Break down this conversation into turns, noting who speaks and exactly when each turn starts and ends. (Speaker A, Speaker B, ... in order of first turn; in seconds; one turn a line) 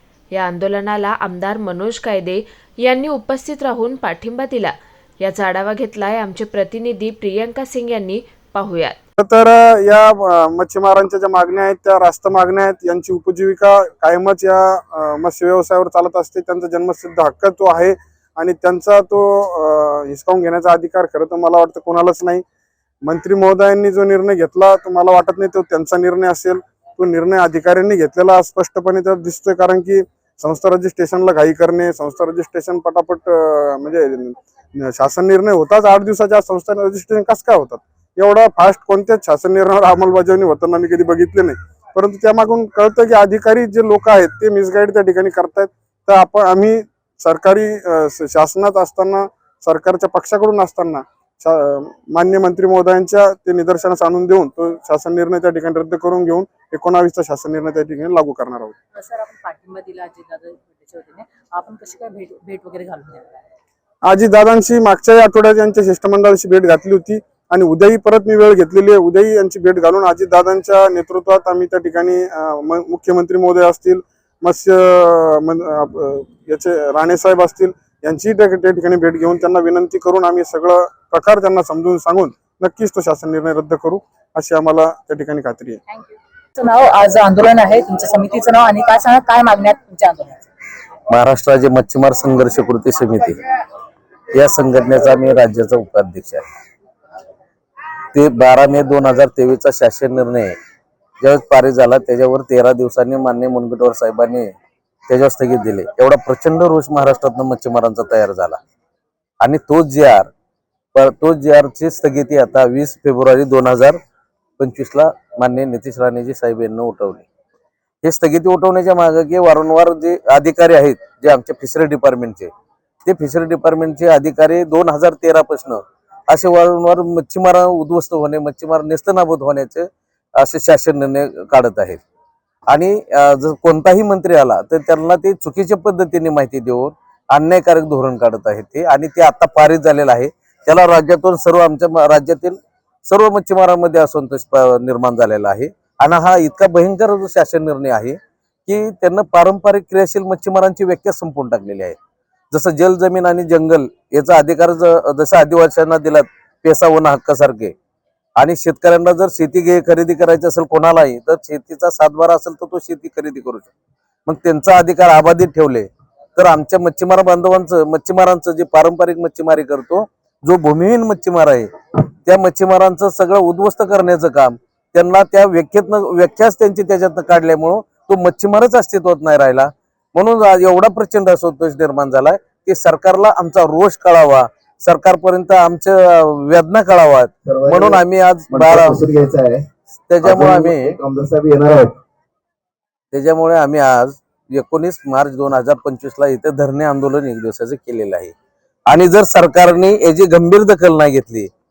Speaker A: 0.3-9.0
Speaker B: 9.2-22.4
Speaker B: 23.0-58.7
Speaker C: 59.0-63.3
Speaker B: 64.0-85.8
Speaker C: 85.9-90.4
Speaker D: 91.1-93.4
Speaker D: 94.3-96.5
Speaker D: 98.1-100.5
Speaker D: 101.2-104.5
Speaker D: 105.1-108.6
Speaker D: 109.4-110.3
Speaker D: 110.9-114.0
Speaker D: 114.6-117.2
Speaker D: 118.0-122.5
Speaker D: 123.0-132.0
Speaker D: 132.7-152.0
Speaker D: 152.5-157.7
Speaker D: 158.4-163.7
Speaker D: 164.2-171.7
Speaker D: 172.2-189.1
Speaker E: 187.4-189.7
Speaker D: 190.1-191.0
Speaker E: 190.2-192.0
Speaker D: 193.1-198.3
Speaker D: 198.9-201.5